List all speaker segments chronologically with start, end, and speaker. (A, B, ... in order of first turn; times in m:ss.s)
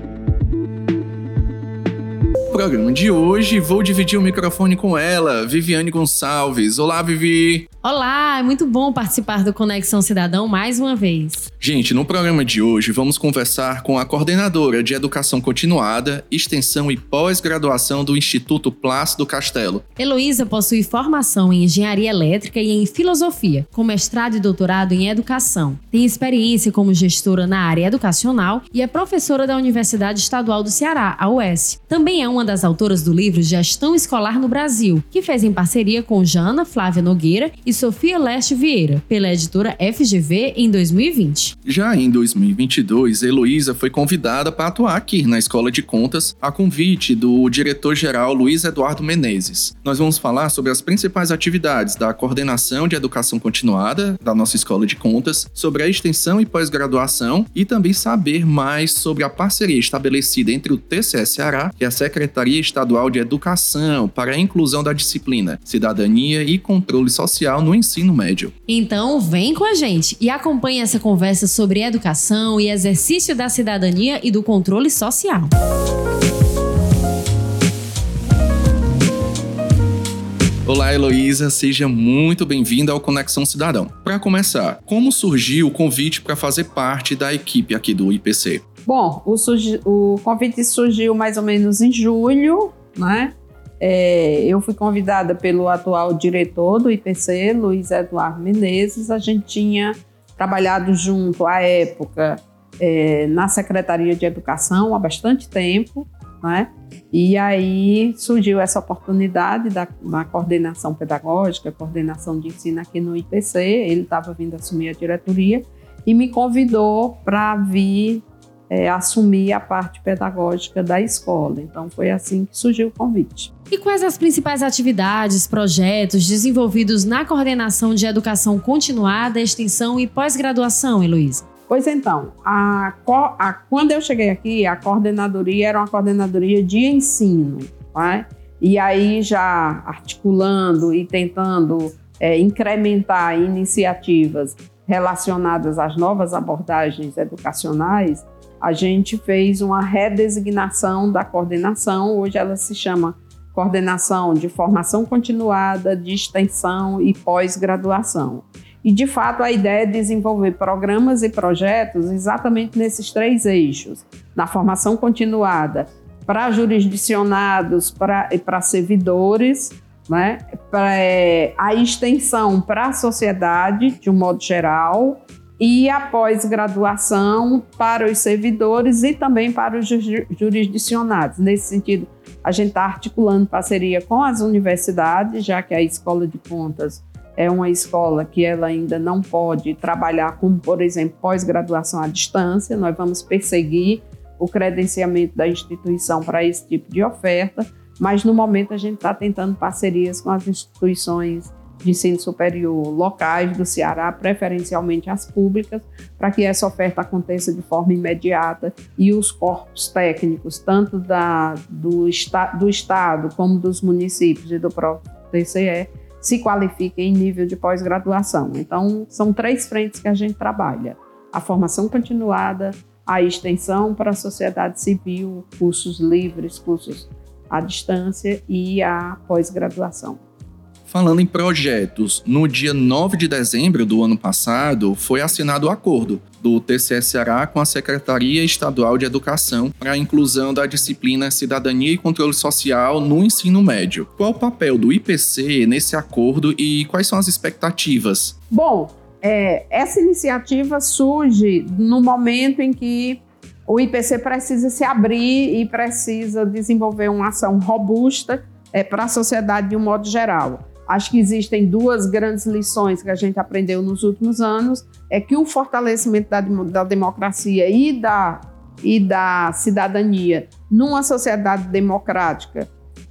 0:02.5-0:07.7 A
0:07.8-0:11.4 B
0:11.6-0:19.8 A
0:20.0-0:41.5 B
0:41.6-1:08.5 A
1:08.7-1:15.5 B
1:20.6-1:28.6 A
1:28.8-2:03.5 C
2:03.7-2:11.5 B
2:11.7-3:50.2 C
3:50.9-4:08.3 A
4:08.5-4:32.7 C